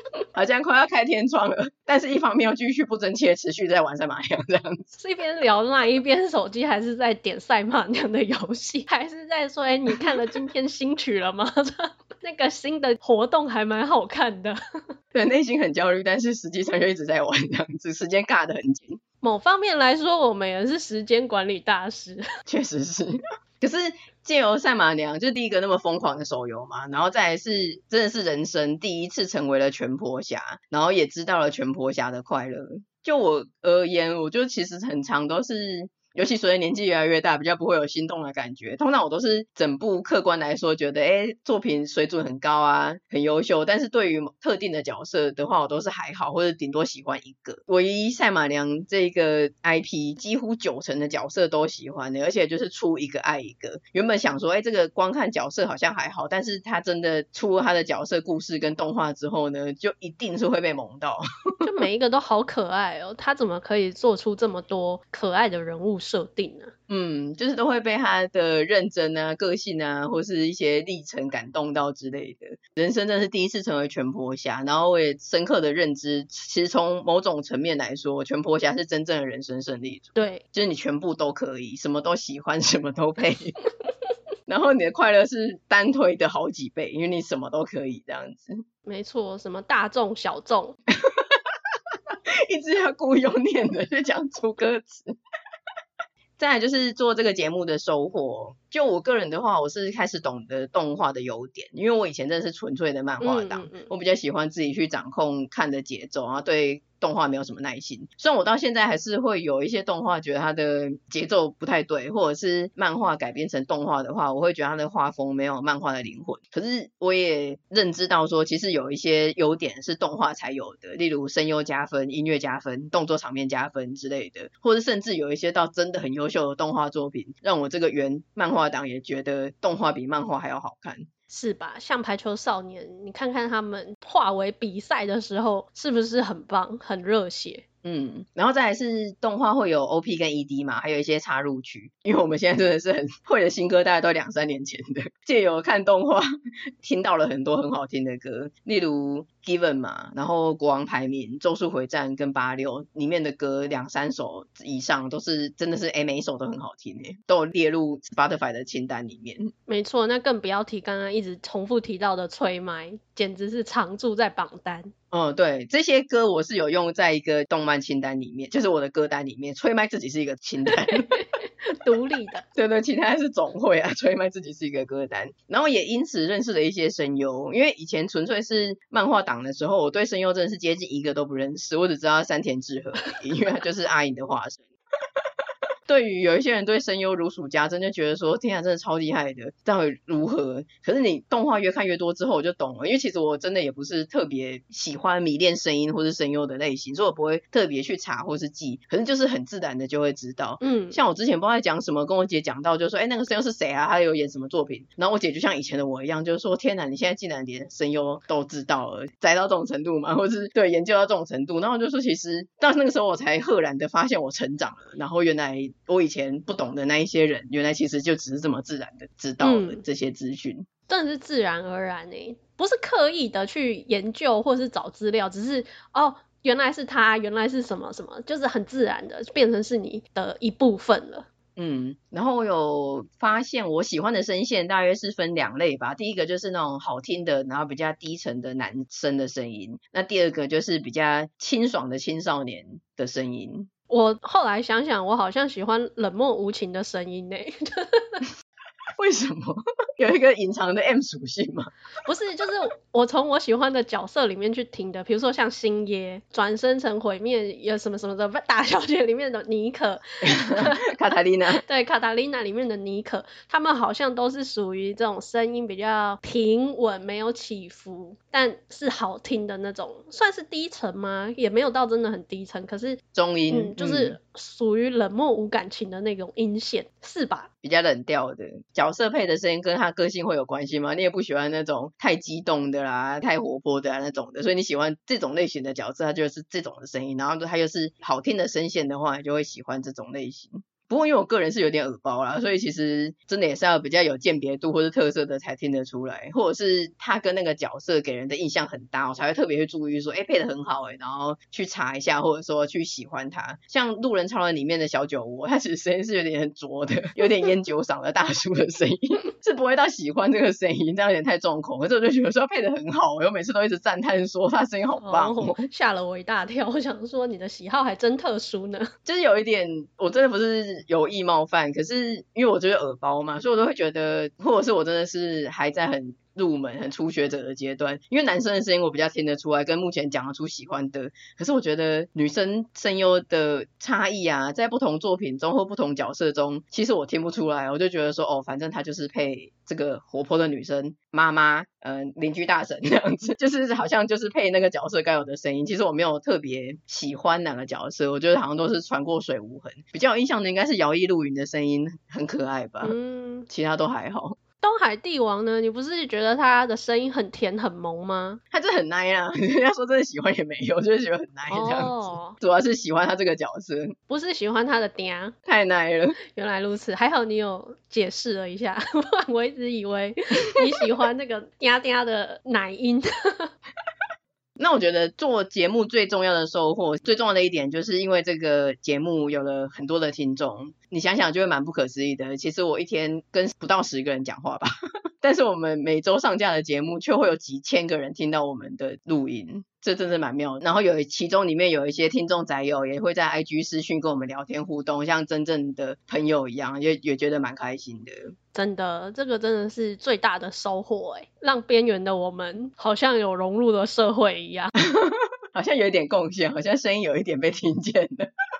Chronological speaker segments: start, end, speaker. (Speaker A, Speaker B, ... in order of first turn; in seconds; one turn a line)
Speaker A: 0.3-4.9
Speaker B: 5.0-14.6
Speaker A: 15.1-19.0
Speaker B: 19.2-22.2
Speaker A: 22.5-61.7
Speaker B: 61.6-66.7
Speaker A: 66.9-83.6
Speaker B: 80.2-80.4
Speaker A: 84.5-88.5
Speaker B: 88.9-90.8
Speaker A: 91.0-91.4
Speaker A: 92.5-95.1
Speaker A: 96.4-131.1
Speaker B: 103.2-103.9
Speaker B: 131.3-137.6
Speaker A: 137.8-146.3
Speaker A: 146.8-159.5
Speaker B: 159.7-164.9
Speaker A: 165.1-171.2
Speaker B: 170.9-172.4
Speaker A: 172.6-184.6
Speaker A: 185.9-220.7
Speaker B: 200.6-201.0
Speaker B: 219.4-219.8
Speaker B: 220.9-231.3
Speaker A: 231.6-243.7
Speaker B: 243.9-248.2
Speaker A: 249.0-251.7
Speaker B: 252.1-260.9
Speaker A: 260.3-261.6
Speaker B: 261.5-277.5
Speaker A: 273.1-274.2
Speaker A: 277.6-315.6
Speaker B: 315.0-318.9
Speaker A: 319.1-352.9
Speaker B: 352.8-353.5
Speaker A: 353.5-354.4
Speaker B: 354.6-358.4
Speaker A: 358.5-363.9
Speaker B: 361.5-362.4
Speaker B: 364.1-365.4
Speaker A: 365.5-366.2
Speaker B: 366.3-373.5
Speaker A: 374.6-384.7
Speaker A: 385.2-398.3
Speaker B: 398.5-404.7
Speaker A: 404.8-408.3